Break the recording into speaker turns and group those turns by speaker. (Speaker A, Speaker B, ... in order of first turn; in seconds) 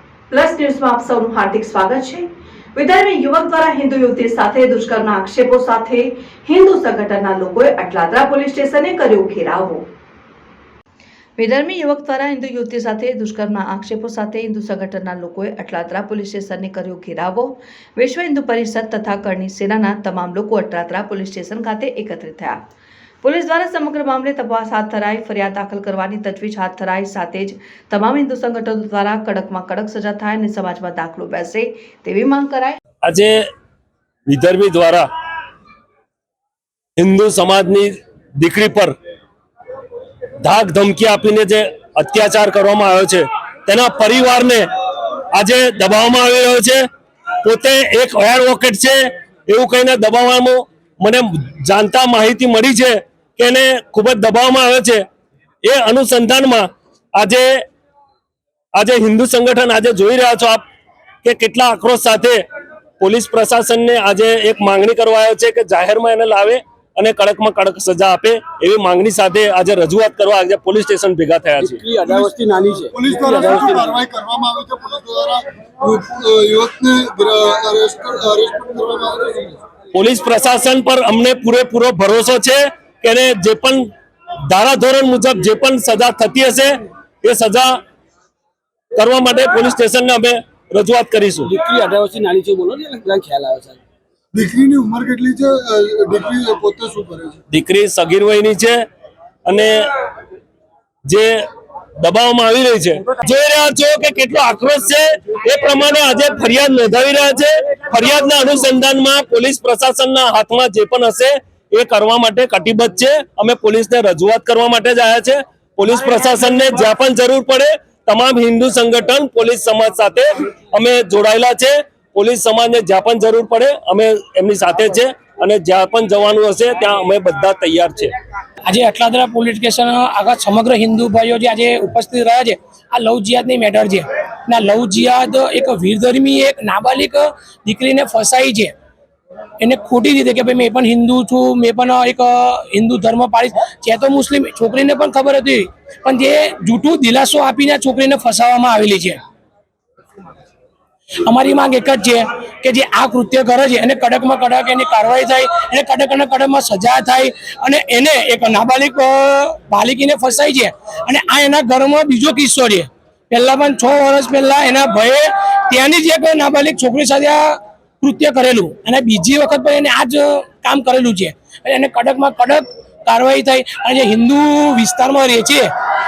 Speaker A: 0.3-9.8, 11.4-22.6, 23.2-32.8
Speaker B: 33.0-33.4, 34.3-35.1, 37.0-39.0, 40.4-44.7, 45.3-46.8, 47.4-55.0, 55.6-57.5, 58.8-60.6, 61.2-62.4, 63.0-71.8, 79.9-83.9, 84.5-87.7, 89.0-91.5, 97.5-98.8, 99.5-99.8, 101.1-101.3, 102.0-128.1
Speaker C: 71.6-74.0, 91.4-93.8
Speaker D: 72.0-79.6, 94.3-97.4
Speaker E: 128.7-138.7, 139.6-149.2, 151.2-175.7